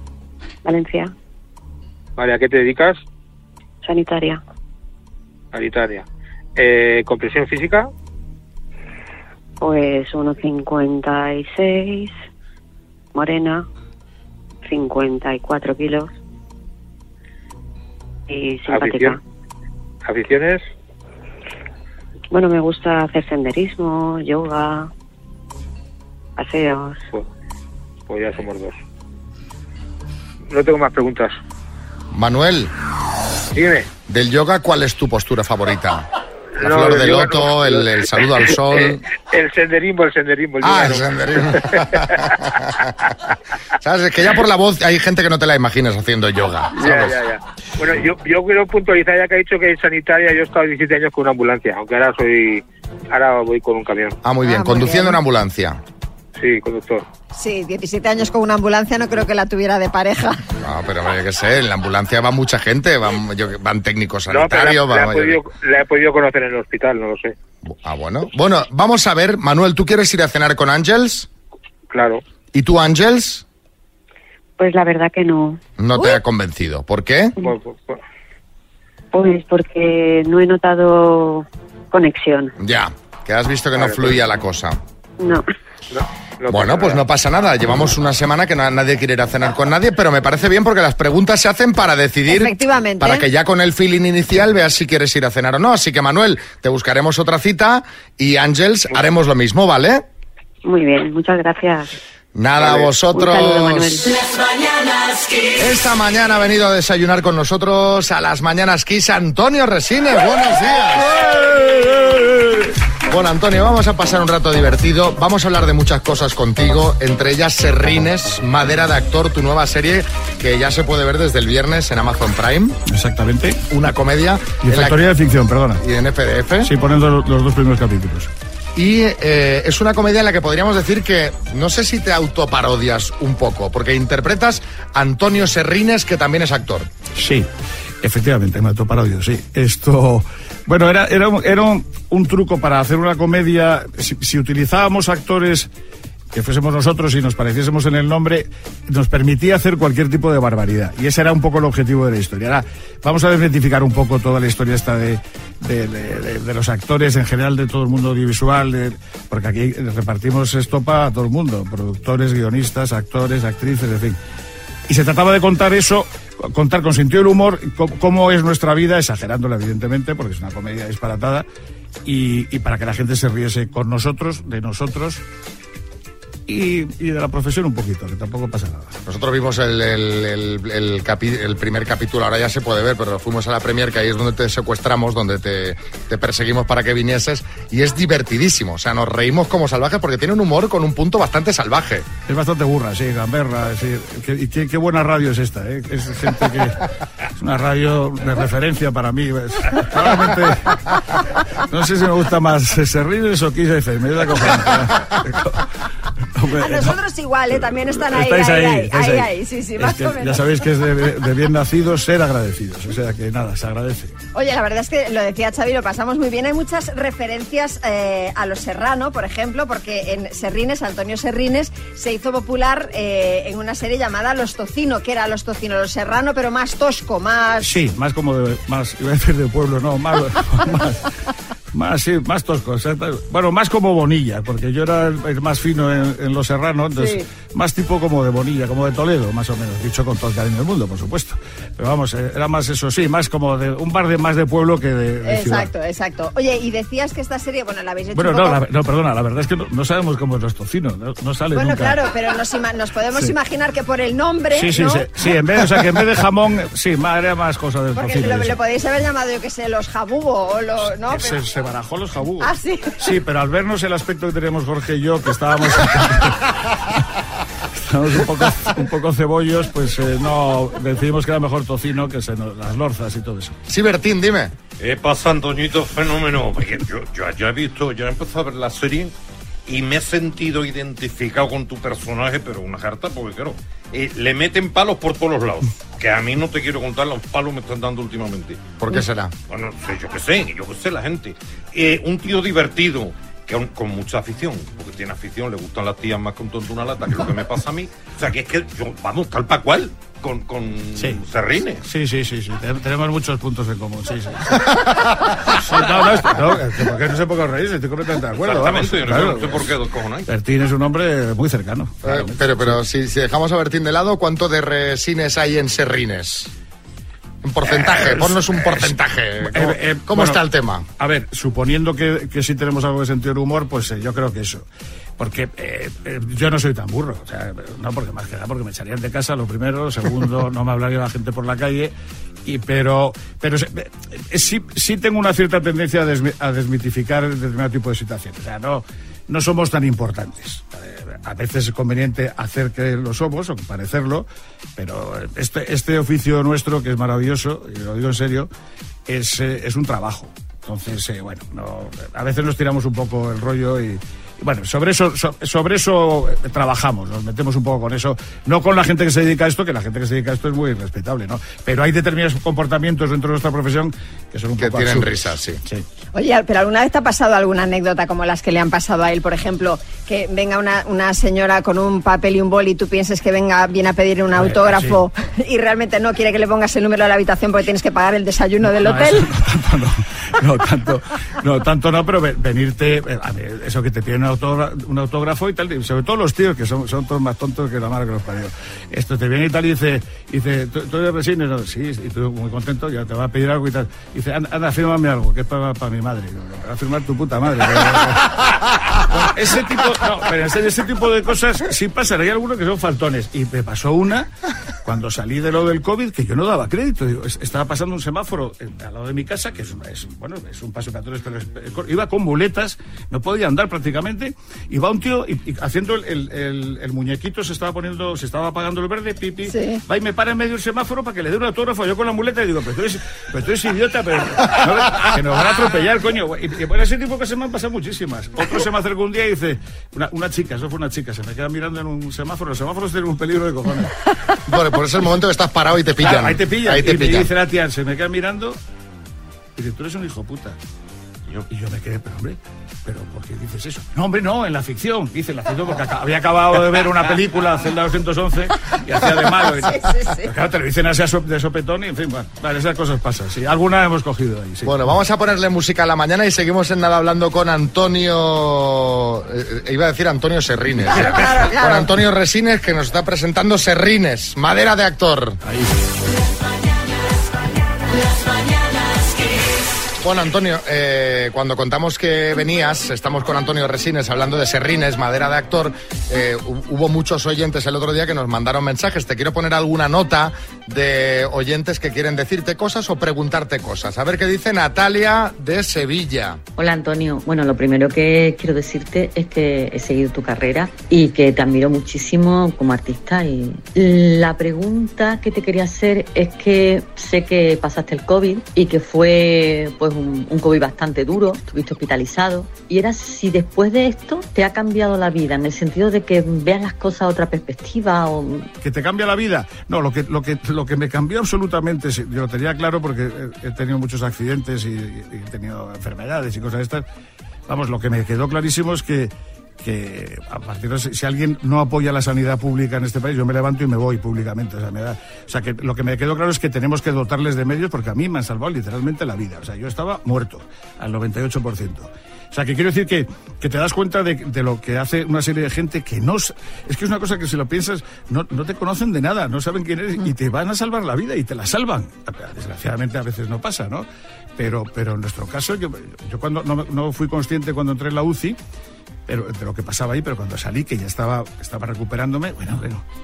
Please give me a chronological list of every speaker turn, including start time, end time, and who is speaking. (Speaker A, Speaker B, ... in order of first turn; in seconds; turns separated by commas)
Speaker A: 0.6-1.1, Speaker B: 2.1-3.0, Speaker A: 3.8-4.4, Speaker B: 5.5-7.9, Speaker A: 9.6-12.1, Speaker A: 13.1-13.7, Speaker A: 14.6-16.1, Speaker A: 18.3-19.2, Speaker B: 18.7-19.2, Speaker B: 20.0-20.6, Speaker A: 22.3-24.9, Speaker A: 26.4-27.0, Speaker B: 28.1-28.8, Speaker B: 30.5-31.4, Speaker C: 32.1-32.7, Speaker B: 33.5-33.9, Speaker C: 34.1-36.0, Speaker B: 36.5-42.3, Speaker C: 36.6-39.0, Speaker C: 40.6-42.7, Speaker C: 43.8-47.2, Speaker B: 46.7-54.2, Speaker C: 54.2-55.8, Speaker D: 54.4-55.2, Speaker B: 56.4-57.0, Speaker D: 57.3-60.4, Speaker C: 60.6-65.4, Speaker B: 64.3-67.3, Speaker C: 67.6-71.3, Speaker B: 71.9-72.2, Speaker C: 72.5-73.4, Speaker A: 74.6-75.6, Speaker C: 75.8-77.4, Speaker B: 77.4-78.0, Speaker A: 79.1-82.5, Speaker C: 82.6-84.8, Speaker B: 83.7-84.1, Speaker A: 85.2-85.5, Speaker B: 85.9-87.0, Speaker C: 86.5-100.0, Speaker D: 92.3-93.3, Speaker A: 100.6-101.9, Speaker C: 102.3-104.1, Speaker A: 103.1-104.2, Speaker C: 105.6-112.0, Speaker C: 113.1-122.8, Speaker E: 122.9-123.6, Speaker C: 123.7-125.0, Speaker E: 124.6-125.8, Speaker C: 125.8-126.7, Speaker E: 126.6-128.3, Speaker C: 128.7-136.9, Speaker E: 137.1-137.5, Speaker E: 138.0-145.7, Speaker E: 146.3-164.2, Speaker E: 164.9-171.4, Speaker E: 172.0-175.2, Speaker E: 176.5-178.9, Speaker C: 179.1-192.1, Speaker E: 192.2-196.8, Speaker E: 197.4-200.7, Speaker E: 201.7-205.6, Speaker E: 206.4-207.0, Speaker D: 206.6-210.5, Speaker E: 208.0-214.1, Speaker D: 214.3-227.7, Speaker E: 227.6-231.0, Speaker E: 231.7-245.7, Speaker D: 236.9-237.2, Speaker D: 245.2-248.6, Speaker E: 248.1-252.0, Speaker D: 251.5-255.1, Speaker E: 254.5-258.6, Speaker D: 257.9-261.4, Speaker E: 261.1-266.5, Speaker D: 262.4-263.0, Speaker E: 267.8-273.6, Speaker C: 273.7-274.5, Speaker F: 274.8-279.1, Speaker F: 279.7-288.7, Speaker C: 288.8-289.3, Speaker F: 289.5-301.8, Speaker E: 300.9-301.2, Speaker E: 301.8-304.8, Speaker E: 305.5-309.7, Speaker F: 308.4-310.3, Speaker E: 310.3-312.8, Speaker C: 312.0-316.5, Speaker C: 317.4-320.9, Speaker E: 317.6-320.4, Speaker E: 321.0-324.6, Speaker E: 325.2-331.9, Speaker E: 332.4-348.5, Speaker E: 349.1-365.8, Speaker C: 364.6-365.6, Speaker D: 366.1-379.3, Speaker E: 374.4-375.0, Speaker E: 378.8-398.5, Speaker E: 399.1-404.3, Speaker E: 404.8-433.9, Speaker D: 419.4-419.8, Speaker C: 434.4-437.3, Speaker E: 436.0-438.6, Speaker E: 439.6-440.6, Speaker E: 441.5-454.8, Speaker D: 449.6-450.3, Speaker C: 454.6-465.4, Speaker D: 460.9-461.9, Speaker C: 470.0-486.4, Speaker G: 486.6-508.5, Speaker E: 508.6-516.8, Speaker E: 517.5-548.4, Speaker E: 549.1-552.8